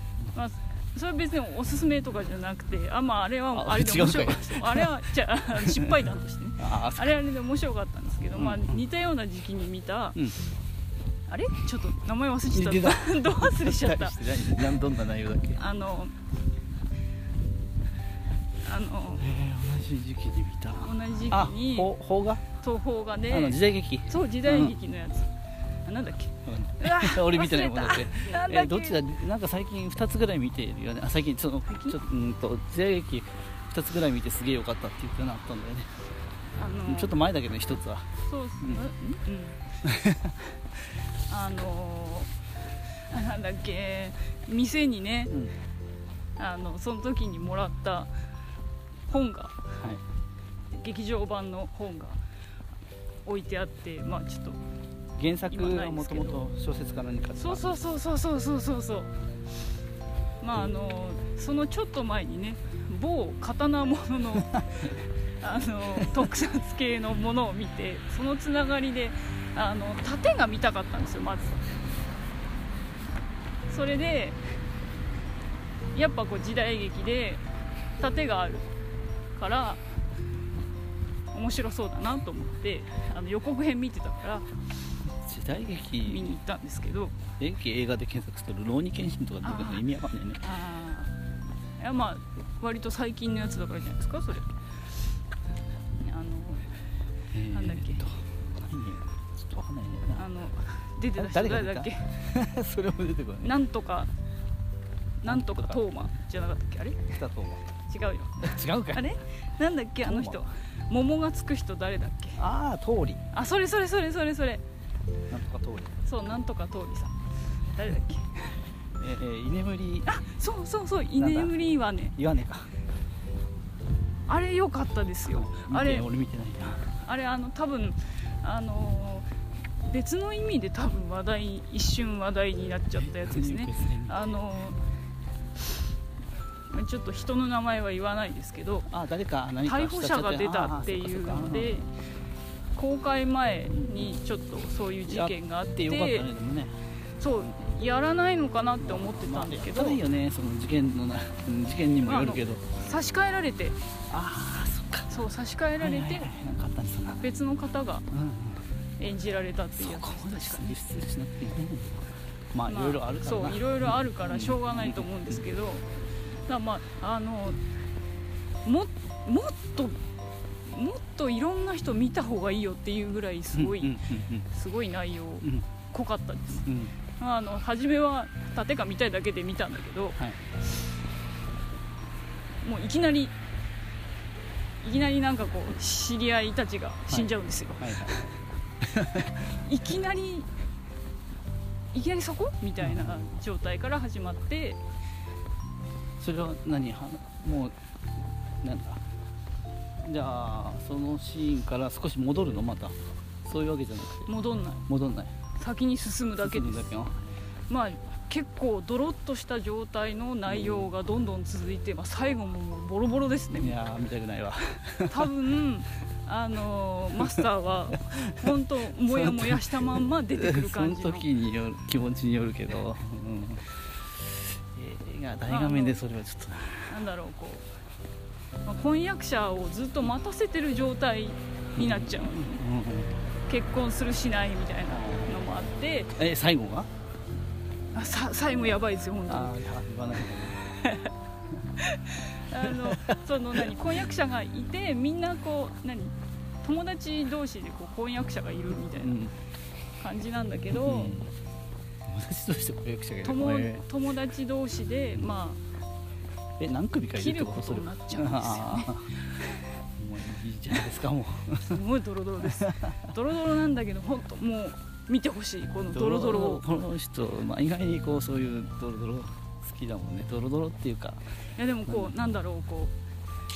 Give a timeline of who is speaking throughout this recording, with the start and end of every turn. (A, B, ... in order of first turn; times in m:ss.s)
0:00.3-0:10.3 A
0:03.5-0:05.0 B
0:05.5-0:07.2 B
0:08.4-0:08.8 B
0:11.3-0:14.5 A
0:12.5-0:15.6 B
0:15.6-0:16.1 A
0:18.6-0:19.3 A
0:19.2-0:22.4 B
0:20.8-0:21.9 A
0:22.6-0:25.3 A
0:23.3-0:24.8 B
0:25.8-0:29.0 A
0:26.5-0:36.0 B
0:31.7-0:32.0 A
0:36.6-0:37.2 A
0:36.9-0:38.1 B
0:38.2-0:39.6 A
0:39.8-0:40.5 B
0:41.3-0:42.3 A
0:43.1-0:45.5 A
0:46.4-0:48.1 A
0:49.1-0:49.8 A
0:50.7-0:52.2 A
0:53.3-0:54.6 A
0:55.2-0:57.7 B
0:55.5-0:56.4 A
0:57.4-0:59.2 A
1:00.4-1:11.6 A
1:13.7-1:14.4 A
1:15.9-1:17.4 A
1:18.0-1:18.7 A
1:19.4-1:19.8 A
1:21.3-1:24.5 A
1:25.2-1:26.3 B
1:26.0-1:27.2 A
1:27.4-1:30.4 B
1:29.4-1:29.8 A
1:30.4-1:31.2 A
1:31.8-1:34.5 A
1:36.0-1:36.7 A
1:37.3-1:40.2 B
1:37.5-1:38.1 A
1:40.2-1:42.1 A
1:41.2-1:43.5 B
1:43.4-1:44.1 A
1:45.2-1:47.1 A
1:45.3-1:45.8 B
1:47.1-1:47.7 B
1:47.9-1:48.6 A
1:48.4-1:49.2 B
1:49.6-1:52.4 A
1:50.0-1:50.4 B
1:52.4-1:53.2 B
1:53.3-1:54.6 A
1:55.3-1:55.9 B
1:56.1-1:57.2 A
1:57.7-1:58.5 A
1:59.0-2:00.1 B
2:00.1-2:02.2 A
2:01.2-2:02.7 B
2:04.3-2:06.1 A
2:05.3-2:07.0 B
2:07.0-2:09.3 A
2:09.8-2:14.8 A
2:13.2-2:14.4 B
2:16.7-2:18.9 A
2:18.9-2:21.9 B
2:19.6-2:21.9 A
2:22.8-2:26.3 A
2:23.7-2:24.2 B
2:25.1-2:26.8 B
2:27.2-2:30.0 A
2:28.8-2:32.6 B
2:32.0-2:33.8 A
2:34.1-2:35.2 B
2:35.1-2:36.3 A
2:35.8-2:37.2 B
2:37.2-2:38.1 A
2:38.1-2:38.7 B
2:39.0-2:40.8 A
2:39.8-2:42.0 B
2:42.5-2:45.4 B
2:42.7-2:45.9 A
2:46.5-2:47.6 A
2:48.6-2:50.0 A
2:50.6-3:00.2 A
2:53.5-2:54.5 B
2:56.6-2:57.0 B
3:02.6-3:03.4 A
3:04.8-3:08.3 A
3:07.1-3:08.2 B
3:08.8-3:09.5 B
3:09.3-3:10.5 A
3:11.9-3:14.8 A
3:12.8-3:13.3 B
3:16.2-3:17.8 B
3:18.6-3:19.0 B
3:20.0-3:24.3 B
3:24.3-3:24.9 A
3:24.9-3:25.3 B
3:25.6-3:27.1 A
3:26.4-3:27.4 B
3:27.7-3:33.8 A
3:30.5-3:30.9 B
3:33.6-3:35.3 B
3:35.1-3:41.3 A
3:37.2-3:38.5 B
3:39.1-3:43.7 B
3:44.2-3:46.9 B
3:45.5-3:46.0 A
3:46.9-3:47.7 A
3:48.6-3:52.6 A
3:51.8-3:53.2 B
3:53.5-3:56.2 A
3:54.9-3:55.4 B
3:56.2-3:56.9 B
3:57.9-3:59.6 A
3:59.3-4:00.7 B
4:00.8-4:01.1 A
4:01.8-4:09.2 A
4:02.6-4:03.7 B
4:09.0-4:09.3 B
4:10.0-4:11.2 A
4:10.7-4:11.3 B
4:12.1-4:13.8 B
4:13.2-4:15.6 A
4:16.6-4:19.2 B
4:17.2-4:19.0 A
4:20.0-4:21.8 B
4:21.6-4:26.6 A
4:22.5-4:23.0 B
4:25.9-4:31.2 B
4:31.6-4:32.9 A
4:31.9-4:32.1 B